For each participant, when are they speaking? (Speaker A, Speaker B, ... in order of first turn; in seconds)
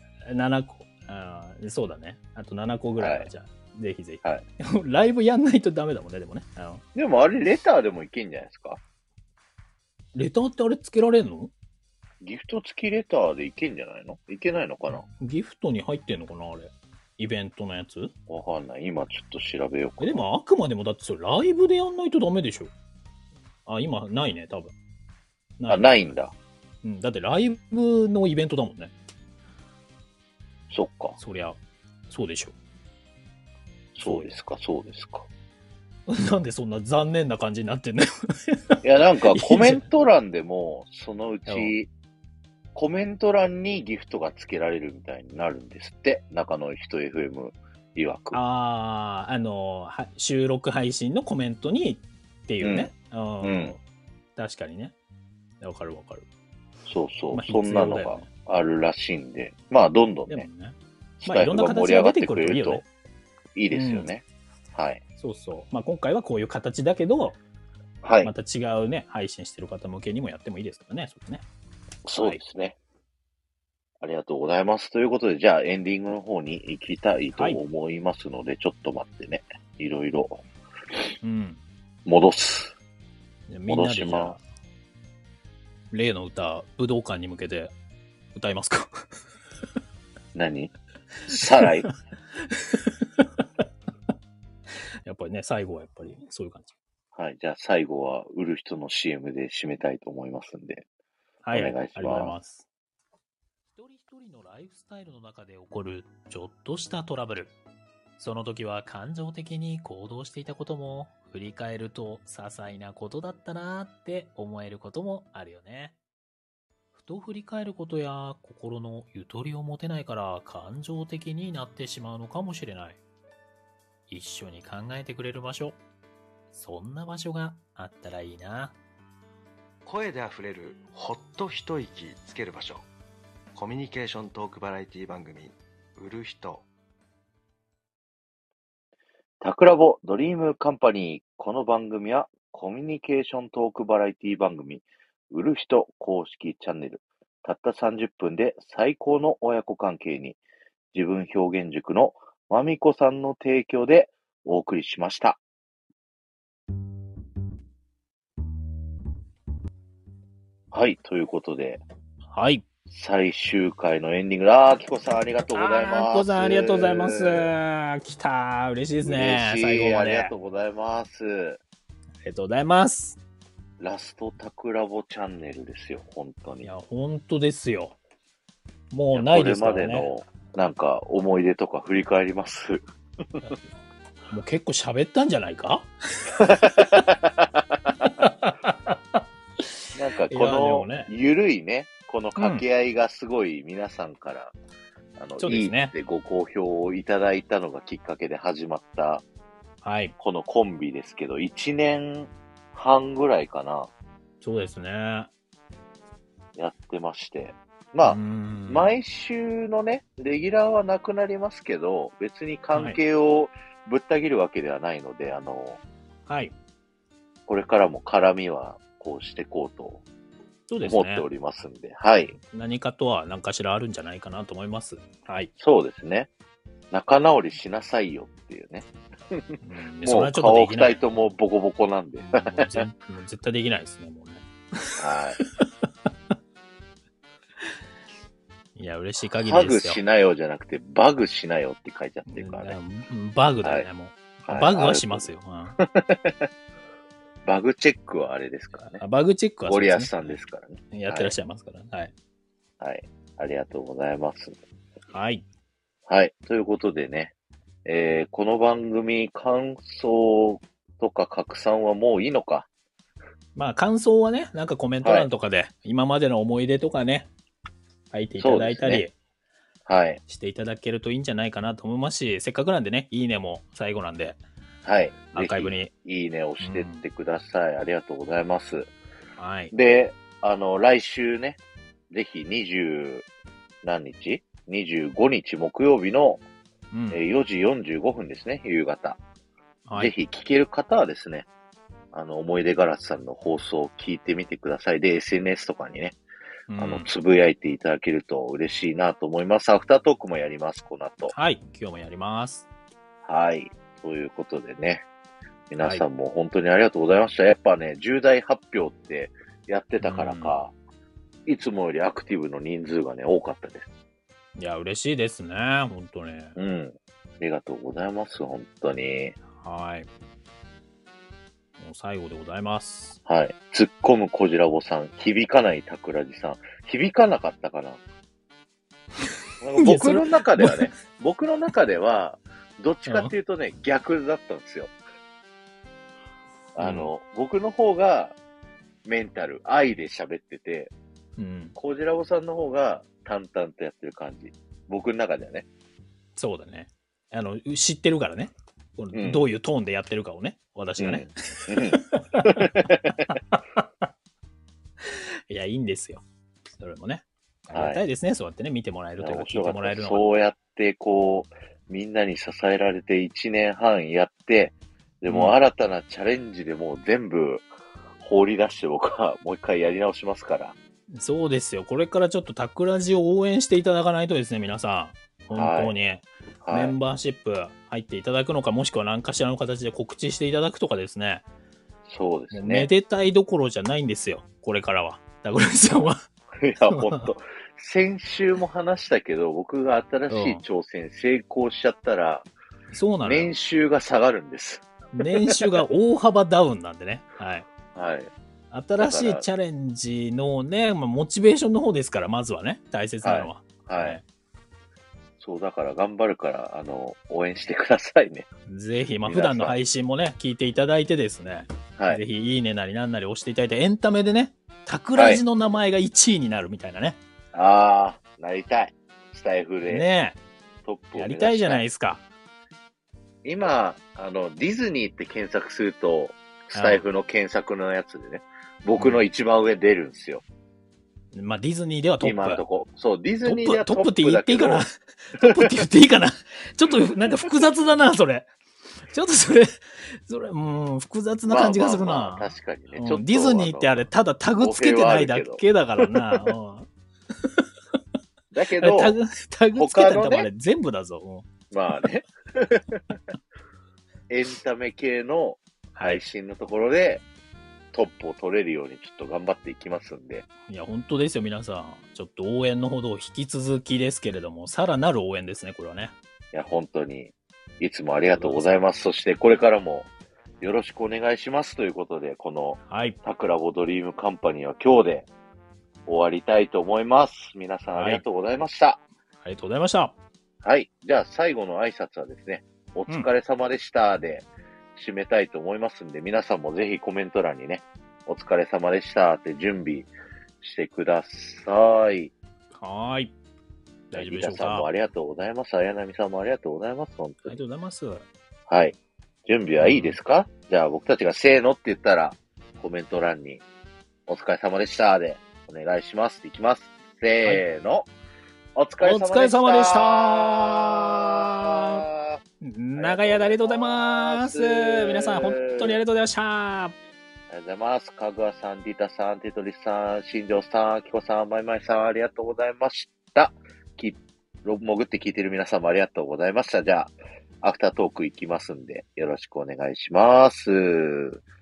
Speaker A: 0.2-6.8, 10.1-11.5, 15.2-18.1, 20.0-22.7, 23.6-24.7, 25.6-26.1, 26.8-28.9, 31.2-31.6, 32.1-32.5, 34.0-34.3, 36.1-38.8, 39.3-39.8, 41.5-41.7, 48.3-53.8, 54.4-54.9, 55.6-56.2, 57.3-58.3, 60.3-62.9, 63.7-64.1, 65.2-67.4, 68.2-71.4, 81.2-81.6, 83.5-84.4, 85.9-87.7, 88.3-89.0, 91.6-91.9, 92.5-93.3, 95.0-96.7, 101.4-102.7, 103.7-107.5, 108.2-116.0, 116.9-123.0, 124.1-125.8, 126.5-128.8, 162.3-162.6, 165.5-170.3, 172.2-173.2, 176.6-177.9, 178.9-180.1, 184.3-187.0, 188.0-189.7, 190.3-191.1, 192.4-192.6, 195.4-195.9, 199.8-200.1, 204.4-205.3, 208.0-208.9, 212.7-213.0, 216.3-216.5, 220.7-221.2, 222.4-225.5, 229.6-231.0, 232.2-235.9, 238.7-240.0, 242.2-245.8, 248.8-250.4, 250.9-252.1, 255.1-255.4, 263.6-267.3, 268.1-269.1, 270.3-274.4, 275.3-275.9, 276.6-277.1, 279.4-279.7, 286.9-287.2, 289.9-290.1, 296.7-297.1, 301.3-302.6, 310.0-310.6, 314.6-316.6, 319.6-320.1, 321.8-323.2, 329.8-330.9, 333.1-333.3, 336.8-337.1, 341.4-341.7, 346.4-352.9, 353.5-353.8, 355.0-356.2, 356.7-360.3, 365.3-365.6, 371.1-381.4, 382.5-386.2, 386.9-387.3, 390.3-390.6, 392.9-393.5, 395.1-397.7, 398.7-404.2, 408.7-417.2, 419.9-420.4, 421.1-422.2, 426.7-427.1, 429.0-429.2, 431.3-432.6, 433.4-438.5, 439.1-446.9, 448.8-451.5, 455.9-456.2, 460.7-466.1, 468.3-468.9, 472.9-473.2, 477.9-478.2, 479.4-480.1, 492.7-493.3, 494.1-494.9, 497.4-498.2, 499.8-500.2, 509.0-512.0, 512.6-516.9
Speaker B: 3.0-3.3, 6.9-8.8, 12.2-15.1, 18.3-20.2, 25.7-26.3, 30.7-31.2, 33.9-35.3, 38.8-41.9, 42.7-48.4, 52.6-52.9, 53.4-53.8, 56.9-60.5, 61.2-62.8, 63.5-65.0, 68.0-68.3, 72.0-72.8, 74.0-80.4, 82.0-82.7, 83.7-84.4, 90.3-90.7, 91.3-91.9, 97.1-100.9, 101.5-102.3, 139.4-150.4, 150.9-155.4, 160.7-161.8, 162.9-167.5, 169.0-171.6, 173.8-176.7, 179.1-182.8, 186.4-187.3, 189.9-194.5, 195.2-199.2, 200.2-203.9, 206.6-215.8, 217.5-220.0, 220.8-222.4, 225.6-226.3, 226.9-232.9, 235.0-235.4, 239.4-242.8, 244.4-246.5, 247.4-249.0, 249.7-251.3, 252.8-254.6, 256.1-257.3, 257.8-262.7, 265.0-265.3, 268.4-269.0, 269.9-270.2, 274.8-278.9, 279.7-281.6, 282.1-283.2, 283.8-286.4, 287.1-289.2, 289.9-291.4, 292.1-296.2, 296.8-301.3, 303.2-305.1, 305.7-310.7, 311.5-313.9, 316.6-319.3, 323.2-328.0, 329.6-334.9, 336.7-338.4, 339.1-340.9, 341.7-345.6, 349.1-349.4, 351.0-353.3, 357.7-358.0, 359.2-367.6, 368.2-370.8, 375.5-375.9, 376.6-376.9, 382.1-382.9, 386.6-392.5, 393.2-394.9, 397.9-398.3, 399.0-399.4, 403.2-404.2, 405.4-408.4, 409.2-409.8, 412.0-412.2, 415.1-415.4, 417.5-420.1, 420.9-421.8, 423.4-430.4, 432.2-434.9, 441.5-444.1, 444.6-446.4, 448.5-449.2, 449.7-450.5, 451.7-453.0, 454.3-457.2, 457.9-460.4, 466.5-470.1, 470.6-475.3, 476.1-479.0, 480.6-490.1, 490.6-492.3, 494.1-497.6, 498.7-503.6, 504.3-508.1, 508.8-512.4, 513.0-516.0, 517.5-531.4
Speaker C: 129.8-132.9, 133.6-136.6